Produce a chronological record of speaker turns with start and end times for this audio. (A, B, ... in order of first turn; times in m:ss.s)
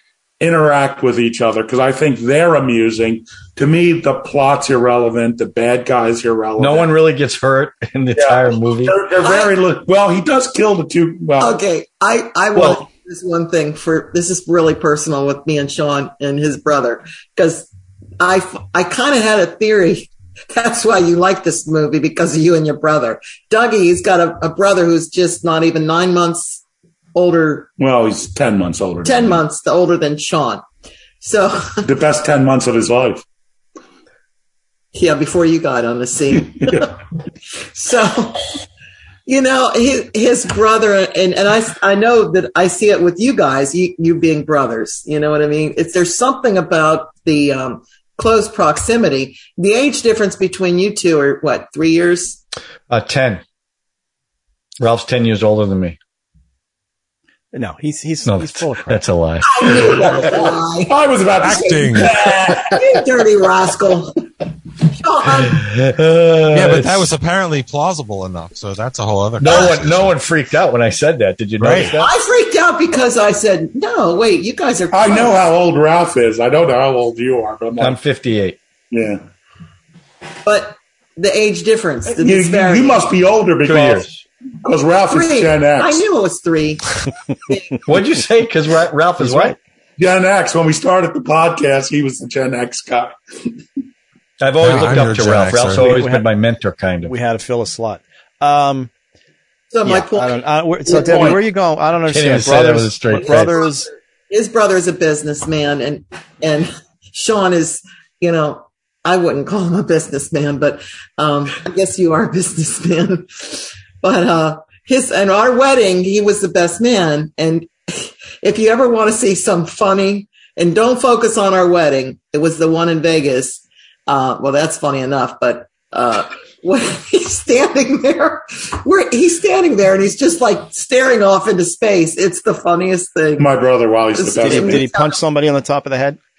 0:00.4-0:06.9 A
0:06.6-0:09.0 B
0:08.2-0:11.6 A
0:09.2-0:09.5 C
0:11.4-0:17.7 C
0:12.5-0:12.8 B
0:18.2-0:26.6 C
0:27.1-0:27.7 C
0:27.8-0:29.4 A
0:29.0-0:30.6 C
0:31.2-0:31.8 C
0:31.8-0:33.2 A
0:34.9-0:36.9 C
0:37.7-0:38.6 C
0:39.2-0:52.4 C
0:52.9-0:53.4 B
0:54.8-0:56.0 B
0:57.5-0:59.0 D
0:58.2-0:59.8 B
0:59.4-1:02.1 C
0:59.6-1:02.9 A
1:01.4-1:02.1 E
1:02.6-1:04.2 C
1:04.8-1:05.7 C
1:05.4-1:07.1 B
1:06.5-1:10.1 E
1:09.4-1:12.1 B
1:09.4-1:09.7 C
1:11.6-1:11.9 E
1:12.0-1:15.4 C
1:14.9-1:18.0 A
1:17.8-1:18.6 B
1:18.9-1:19.2 A
1:20.4-1:23.1 C
1:22.1-1:24.1 A
1:23.6-1:24.2 B
1:24.6-1:26.0 A
1:25.1-1:27.8 C
1:27.8-1:29.6 B
1:29.2-1:29.6 D
1:30.0-1:33.5 A
1:34.4-1:37.1 B
1:34.6-1:36.0 E
1:34.8-1:35.0 D
1:35.7-1:36.3 D
1:37.1-1:38.9 D
1:39.7-1:41.4 C
1:39.8-1:43.9 D
1:40.9-1:41.3 A
1:42.1-1:43.5 B
1:43.1-2:13.5 C
2:13.4-2:14.8 A
2:14.1-2:15.2 C
2:14.4-2:16.2 D